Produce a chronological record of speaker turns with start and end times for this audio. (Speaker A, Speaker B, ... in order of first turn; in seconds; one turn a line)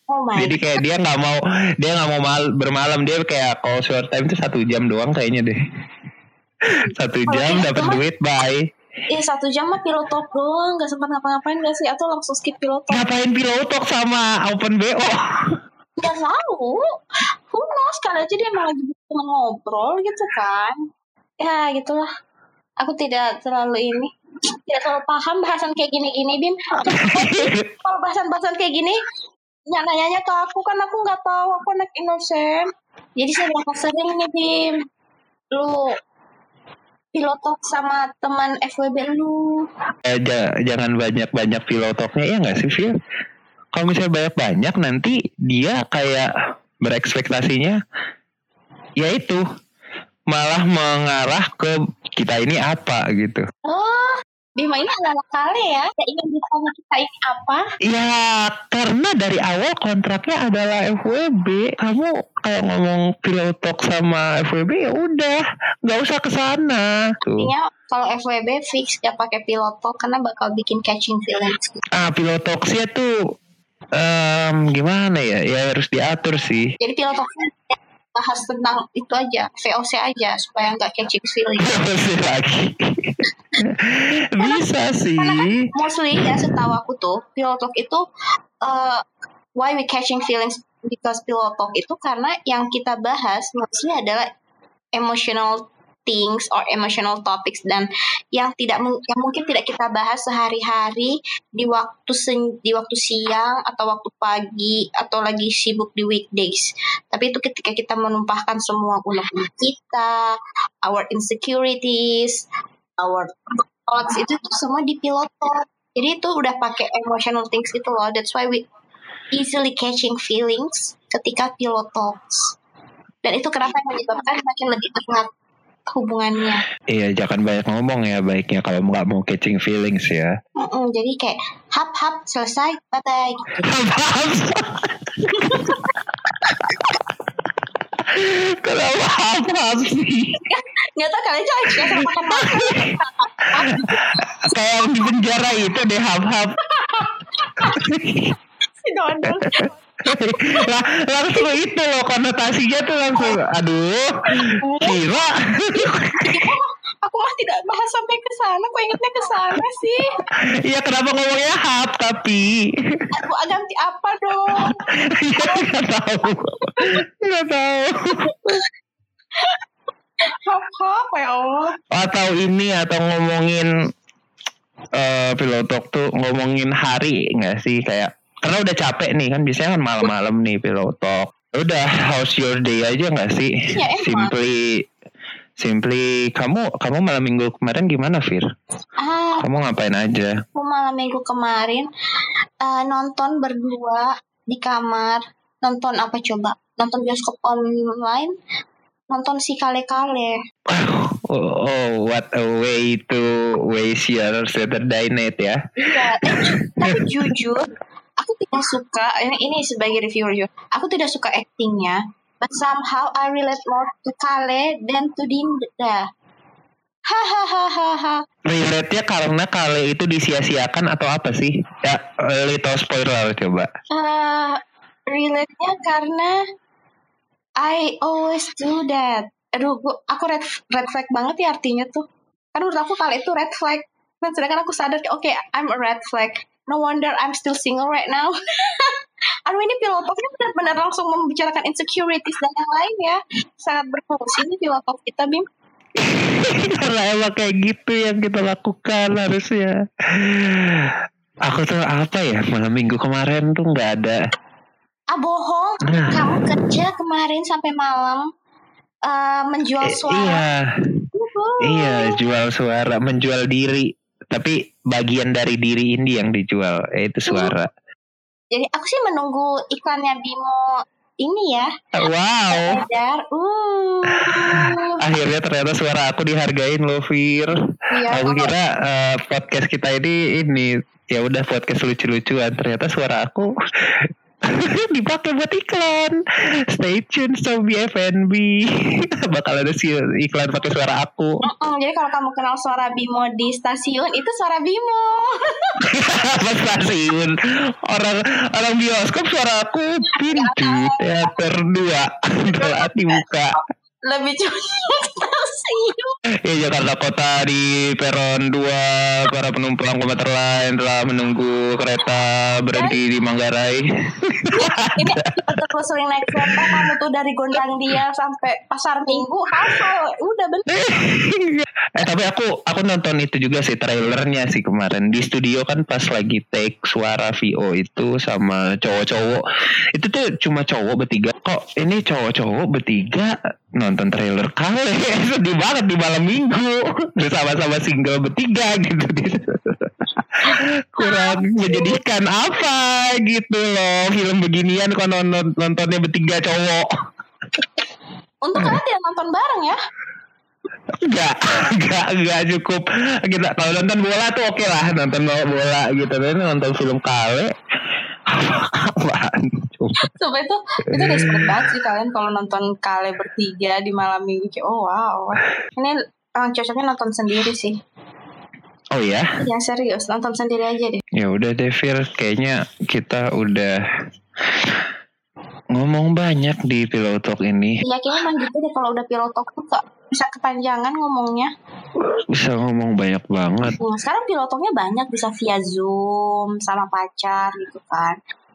Speaker A: 0.1-0.6
Speaker B: 0.4-5.6
Speaker A: 6.7-8.0
Speaker B: 6.8-8.7
Speaker A: 9.1-13.1
Speaker B: 12.9-15.5
Speaker A: 16.0-17.0
Speaker A: 17.5-20.8
Speaker A: 21.4-22.1
Speaker A: 22.8-29.0
Speaker B: 26.8-27.7
Speaker A: 29.7-34.8
Speaker A: 35.5-36.0
Speaker A: 37.1-39.7
Speaker B: 40.1-42.9
Speaker B: 43.7-46.3
Speaker B: 46.8-47.8
Speaker B: 49.0-49.4
Speaker B: 50.3-53.5
Speaker A: 53.6-57.7
Speaker B: 57.9-67.5
Speaker A: 67.4-71.8
Speaker B: 72.0-73.1
Speaker B: 74.0-76.7
Speaker A: 76.8-81.8
Speaker B: 81.6-85.7
Speaker A: 85.2-88.0
Speaker A: 88.6-89.0
Speaker A: 89.6-94.3
Speaker A: 95.0-110.2
Speaker A: 110.8-112.5
Speaker A: 113.0-118.7
Speaker A: 119.3-122.5
Speaker A: 123.2-125.3
Speaker A: 125.9-126.6
Speaker B: 126.9-130.3
Speaker A: 130.6-133.7
Speaker B: 133.7-135.8
Speaker A: 135.3-135.8
Speaker B: 138.1-140.4
Speaker A: 140.4-144.0
Speaker B: 141.8-142.9
Speaker B: 143.7-146.6
Speaker A: 146.8-147.8
Speaker B: 147.6-148.3
Speaker A: 148.8-149.7
Speaker B: 149.2-156.5
Speaker A: 154.6-155.0
Speaker A: 155.7-160.0
Speaker B: 160.7-162.6
Speaker A: 163.1-164.8
Speaker B: 165.1-168.3
Speaker A: 165.4-165.7
Speaker A: 168.2-168.6
Speaker A: 169.3-169.6
Speaker A: 170.2-171.8
Speaker B: 171.9-173.7
Speaker B: 175.0-184.8
Speaker A: 183.7-184.3
Speaker B: 185.6-188.4
Speaker A: 189.0-189.4
Speaker B: 189.4-190.4
Speaker A: 190.6-191.9
Speaker A: 192.6-198.3
Speaker A: 199.1-200.4
Speaker B: 200.7-207.3
Speaker A: 205.8-207.7
Speaker A: 208.2-216.1
Speaker A: 217.1-218.2
Speaker B: 218.5-223.7
Speaker A: 223.9-224.6
Speaker A: 225.1-226.4
Speaker A: 227.6-238.9
Speaker A: 239.5-245.5
Speaker B: 246.0-250.9
Speaker B: 251.5-254.2
Speaker A: 255.1-258.2
Speaker B: 255.9-256.4
Speaker A: 259.1-260.4
Speaker B: 259.9-260.6
Speaker A: 261.1-262.2
Speaker B: 261.6-267.7
Speaker A: 267.3-267.5
Speaker A: 268.5-271.7
Speaker B: 271.9-272.8
Speaker A: 272.5-275.0
Speaker B: 274.1-277.5
Speaker A: 277.9-278.5
Speaker B: 278.1-283.5
Speaker B: 284.5-286.2
Speaker B: 286.7-291.4
Speaker A: 291.4-295.8
Speaker B: 295.9-297.4
Speaker B: 297.9-303.6
Speaker A: 300.1-301.3
Speaker A: 302.5-306.2
Speaker B: 306.4-315.5
Speaker A: 312.7-313.0
Speaker A: 314.5-320.7
Speaker B: 316.4-316.8
Speaker B: 320.7-329.4
Speaker B: 329.9-346.9
Speaker A: 340.5-342.0
Speaker A: 348.4-349.8
Speaker B: 351.0-357.5
Speaker B: 358.3-360.1
Speaker A: 360.0-367.8
Speaker B: 361.0-361.6
Speaker B: 368.9-369.3
Speaker A: 369.4-371.0
Speaker B: 371.2-373.8
Speaker B: 375.8-377.8
Speaker A: 377.8-381.5
Speaker B: 382.2-383.8
Speaker A: 383.8-388.2